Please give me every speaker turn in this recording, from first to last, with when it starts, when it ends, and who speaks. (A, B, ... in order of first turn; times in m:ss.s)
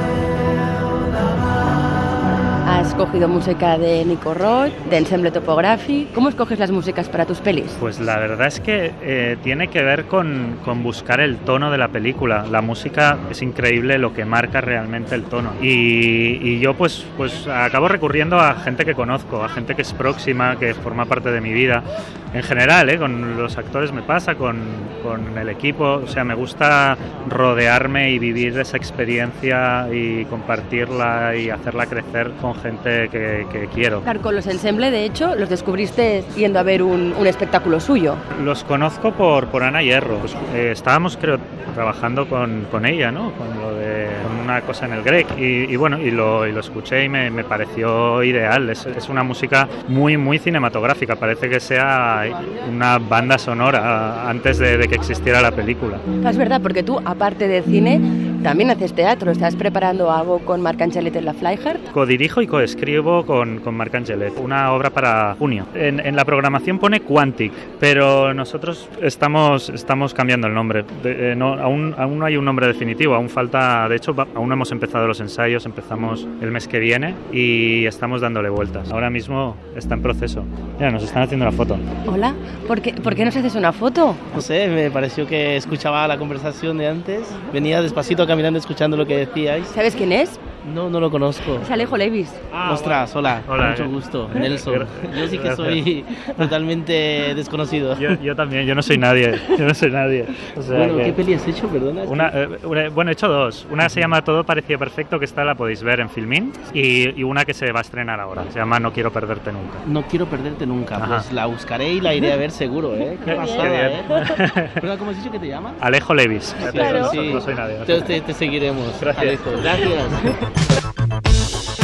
0:02.6-0:07.8 A
0:07.8-0:34.1 B
0:34.0-0:38.2 A
0:38.3-0:56.0 B
0:56.2-1:01.8 A
1:01.9-1:21.8 B
1:22.0-1:24.2 A
1:24.3-1:29.8 C
1:29.7-1:30.4 A
1:30.6-1:31.7 C
1:31.6-1:32.4 A
1:32.5-1:35.8 B
1:32.6-1:38.2 C
1:38.0-1:41.2 B
1:40.7-1:42.3 C
1:42.0-1:49.8 B
1:49.9-1:55.8 C
1:51.0-1:51.3 B
1:53.3-1:54.8 B
1:55.8-1:58.1 B
1:56.6-2:00.4 C
1:56.8-1:57.2 A
1:59.0-1:59.9 B